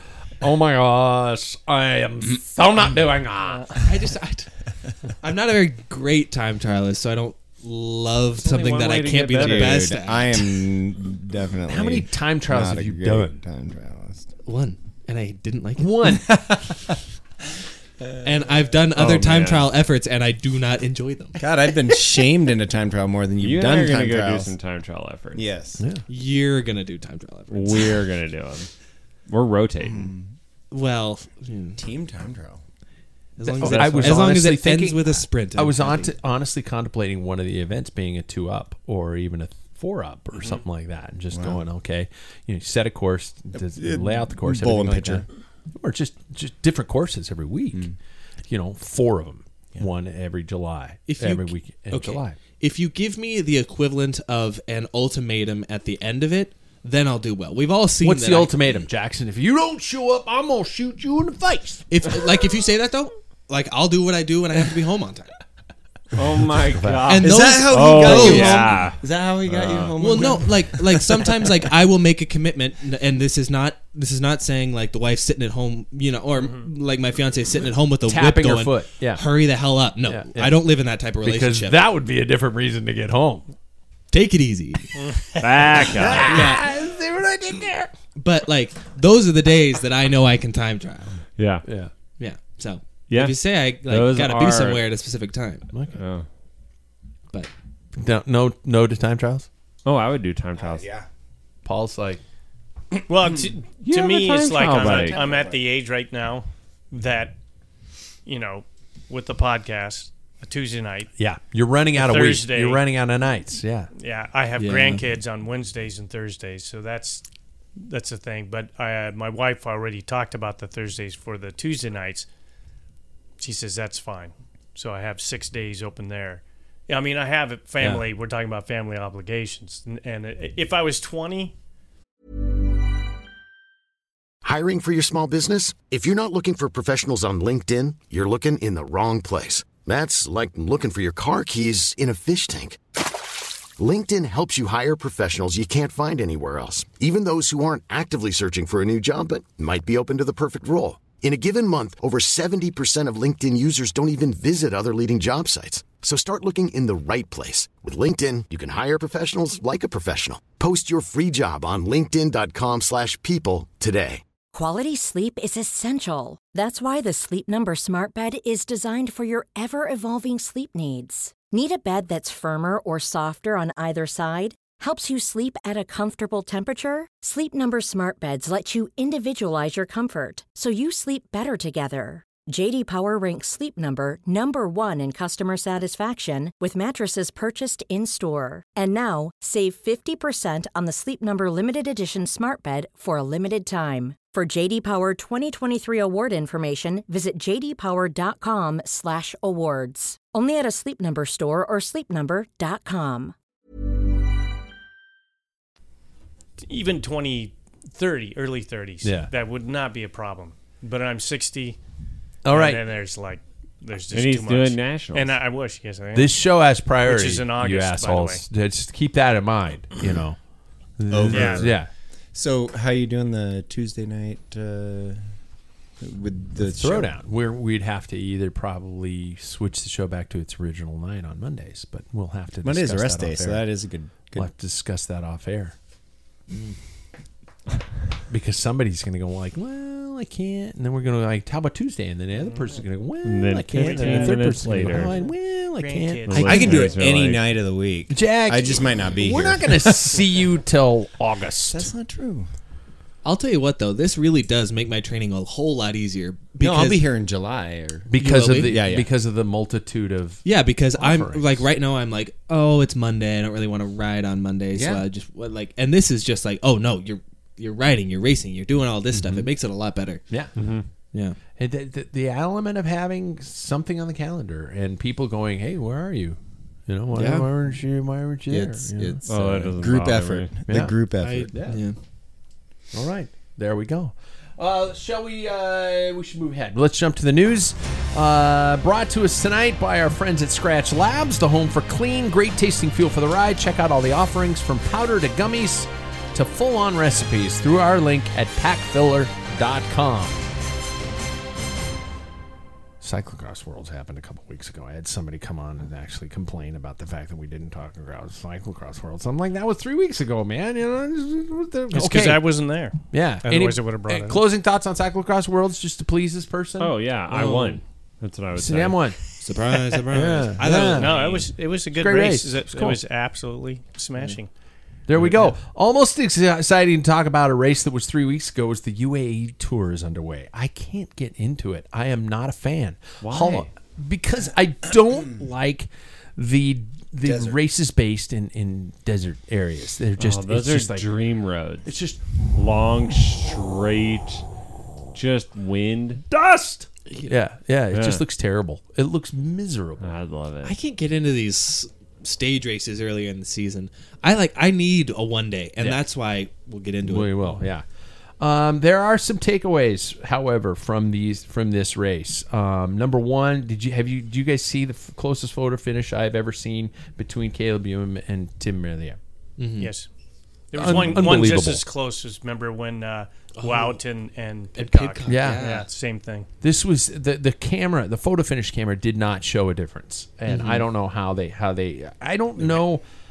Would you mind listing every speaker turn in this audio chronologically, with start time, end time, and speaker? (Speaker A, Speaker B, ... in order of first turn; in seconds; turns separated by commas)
Speaker A: 0.4-3.8, Speaker B: 3.8-4.5, Speaker B: 5.2-10.7, Speaker C: 8.4-10.0, Speaker D: 9.4-14.3, Speaker A: 11.7-13.4, Speaker B: 14.4-16.2, Speaker A: 15.8-16.5, Speaker B: 18.2-21.4, Speaker C: 19.0-19.7, Speaker D: 21.4-24.5, Speaker C: 23.4-25.5, Speaker D: 25.4-25.8, Speaker A: 25.8-26.1, Speaker B: 26.1-28.0, Speaker C: 27.5-28.7, Speaker C: 29.3-30.1, Speaker D: 29.8-30.3, Speaker B: 30.7-31.8, Speaker D: 31.8-32.6, Speaker B: 33.4-36.1, Speaker A: 33.5-47.9, Speaker C: 33.6-34.3, Speaker D: 41.3-41.6, Speaker D: 43.5-45.3, Speaker A: 48.5-52.4, Speaker B: 51.1-58.8, Speaker A: 58.0-61.8, Speaker B: 61.9-65.3, Speaker C: 66.2-70.4, Speaker A: 66.8-67.2, Speaker B: 67.1-68.9, Speaker D: 67.1-71.5, Speaker B: 70.0-81.8, Speaker E: 76.4-76.7, Speaker A: 78.1-79.2, Speaker A: 80.0-83.5, Speaker B: 84.1-84.9, Speaker E: 85.0-85.8, Speaker C: 85.4-86.4, Speaker A: 85.9-87.9, Speaker B: 86.2-86.7, Speaker B: 88.2-91.2, Speaker C: 91.4-91.7, Speaker A: 91.7-91.9, Speaker B: 92.2-95.7, Speaker C: 93.1-94.8, Speaker A: 95.7-96.0, Speaker C: 96.0-96.3, Speaker A: 98.0-99.5, Speaker C: 99.8-100.9, Speaker D: 100.5-101.1, Speaker A: 101.7-102.2, Speaker E: 103.1-107.4, Speaker A: 103.9-105.2, Speaker C: 104.3-105.2, Speaker D: 105.1-105.6, Speaker E: 108.2-111.1, Speaker A: 111.2-113.9, Speaker E: 111.9-112.8, Speaker E: 114.0-117.2, Speaker B: 114.6-115.0, Speaker E: 117.8-122.3, Speaker E: 123.4-131.6, Speaker A: 127.8-128.1, Speaker F: 134.4-142.8, Speaker F: 143.8-164.2, Speaker G: 164.5-203.3, Speaker E: 206.6-211.8, Speaker A: 209.0-209.3, Speaker A: 212.4-212.8, Speaker E: 212.5-216.4, Speaker C: 214.1-215.4, Speaker A: 216.1-220.4, Speaker E: 217.0-218.4, Speaker A: 221.0-221.9, Speaker D: 221.1-221.8, Speaker E: 221.3-221.7, Speaker D: 222.3-225.3, Speaker D: 226.0-227.1, Speaker A: 226.6-233.7, Speaker D: 232.6-234.5, Speaker A: 234.3-235.7, Speaker A: 238.3-246.9, Speaker E: 242.4-242.7, Speaker C: 243.2-245.2, Speaker E: 243.8-247.1, Speaker C: 246.3-247.5, Speaker D: 246.4-250.3, Speaker A: 248.1-251.9, Speaker D: 251.7-252.5, Speaker B: 253.2-257.1, Speaker D: 256.6-259.1, Speaker A: 258.1-261.6, Speaker B: 258.2-258.8, Speaker B: 260.4-270.4, Speaker D: 264.7-265.1, Speaker A: 269.1-269.5, Speaker C: 270.6-270.9, Speaker A: 271.6-279.7, Speaker B: 277.1-277.5, Speaker D: 278.5-281.8, Speaker C: 279.2-280.6, Speaker A: 280.7-280.9, Speaker B: 281.2-282.0, Speaker A: 282.9-300.4, Speaker A: 303.0-312.6, Speaker E: 311.9-314.4, Speaker A: 313.1-317.0, Speaker C: 316.8-319.1, Speaker B: 317.3-317.8, Speaker A: 318.6-319.3, Speaker B: 319.4-321.5, Speaker A: 320.1-321.2, Speaker E: 320.7-324.5, Speaker A: 321.9-323.0, Speaker A: 325.1-341.1, Speaker B: 325.1-325.6, Speaker C: 333.2-333.7, Speaker D: 337.2-337.6, Speaker C: 340.2-341.9, Speaker A: 341.9-342.2, Speaker C: 342.6-344.4, Speaker C: 345.1-346.2, Speaker A: 346.3-350.2, Speaker B: 347.1-347.4, Speaker C: 347.9-348.2, Speaker C: 350.0-350.8, Speaker B: 350.6-357.7, Speaker A: 357.1-357.8, Speaker A: 358.4-369.2, Speaker B: 369.6-369.9, Speaker E: 369.8-370.1, Speaker E: 370.7-376.5, Speaker A: 370.7-371.9, Speaker B: 373.6-374.0, Speaker B: 374.8-375.9, Speaker A: 375.3-375.8, Speaker A: 376.6-383.0, Speaker B: 380.5-380.9